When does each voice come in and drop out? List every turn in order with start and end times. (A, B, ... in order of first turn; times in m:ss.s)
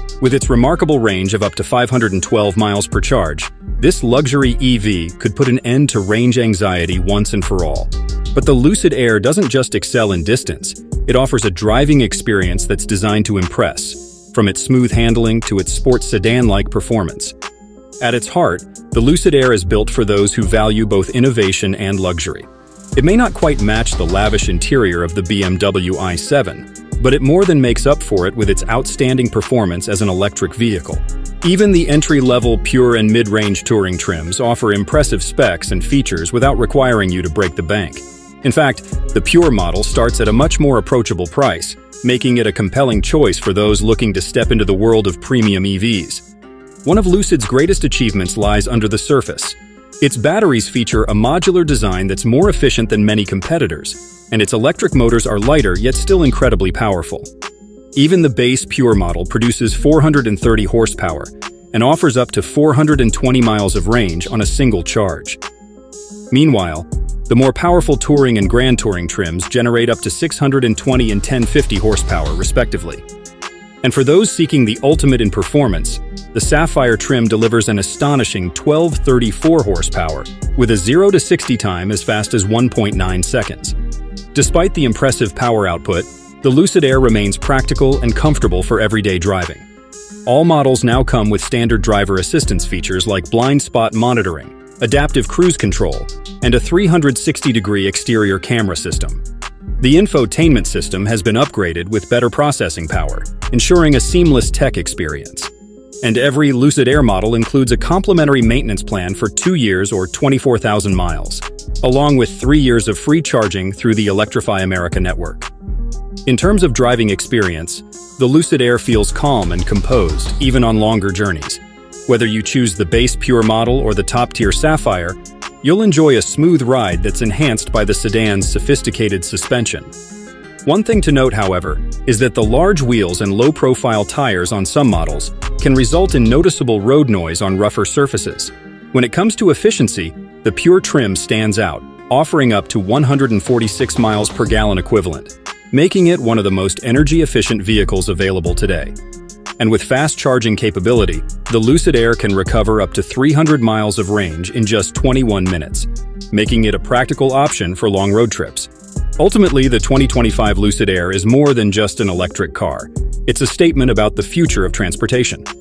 0:00.2-0:17.4 A
0:18.0-0:46.3 A
0:46.8-0:57.3 A
0:58.0-1:05.4 A
1:06.3-1:13.0 A
1:13.8-1:23.8 A
1:24.3-1:29.7 A
1:30.2-1:39.2 A
1:39.8-1:45.5 A
1:46.0-1:55.5 A
1:56.2-2:09.9 A
2:10.6-2:29.0 A
2:29.6-2:45.5 A